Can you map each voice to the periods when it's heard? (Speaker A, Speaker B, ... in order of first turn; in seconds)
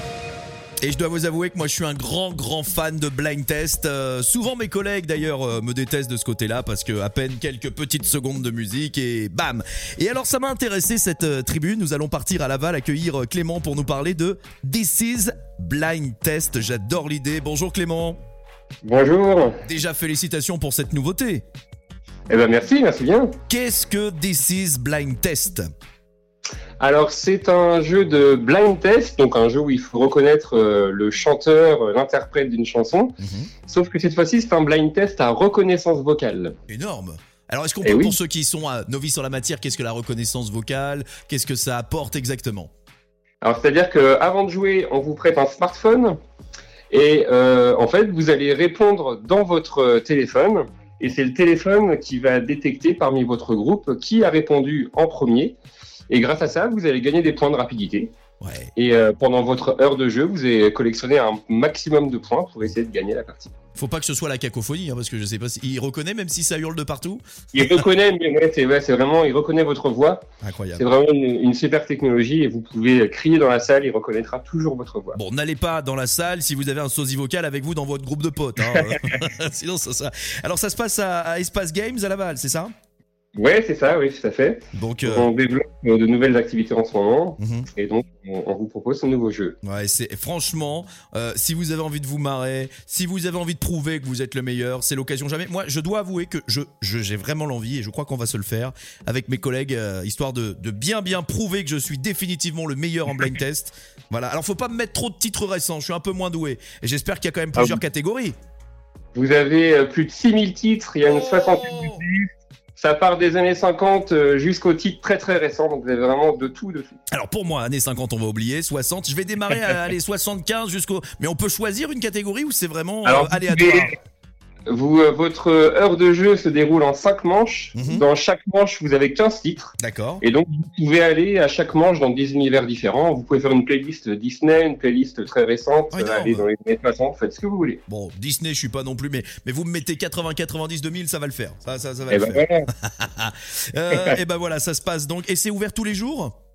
Speaker A: 0.8-18.2, 19.6-21.4, 23.5-25.6, 33.2-33.5, 36.7-42.7, 58.4-58.7, 63.8-67.7, 70.4-70.8, 75.1-82.7, 84.7-85.3, 87.4-87.7, 89.6-108.4, 111.0-112.0, 117.1-123.9, 127.8-128.1, 129.8-130.2, 135.9-136.5, 137.9-146.3
Speaker B: 18.8-19.6, 22.3-23.4, 26.8-36.5, 37.8-38.2, 43.4-46.2, 46.9-55.6, 56.1-58.1, 58.8-63.5, 67.5-70.2, 70.8-75.2, 83.3-89.6, 107.6-107.8, 109.1-117.0, 123.0-123.9, 124.7-137.8, 142.1-142.7, 143.9-144.2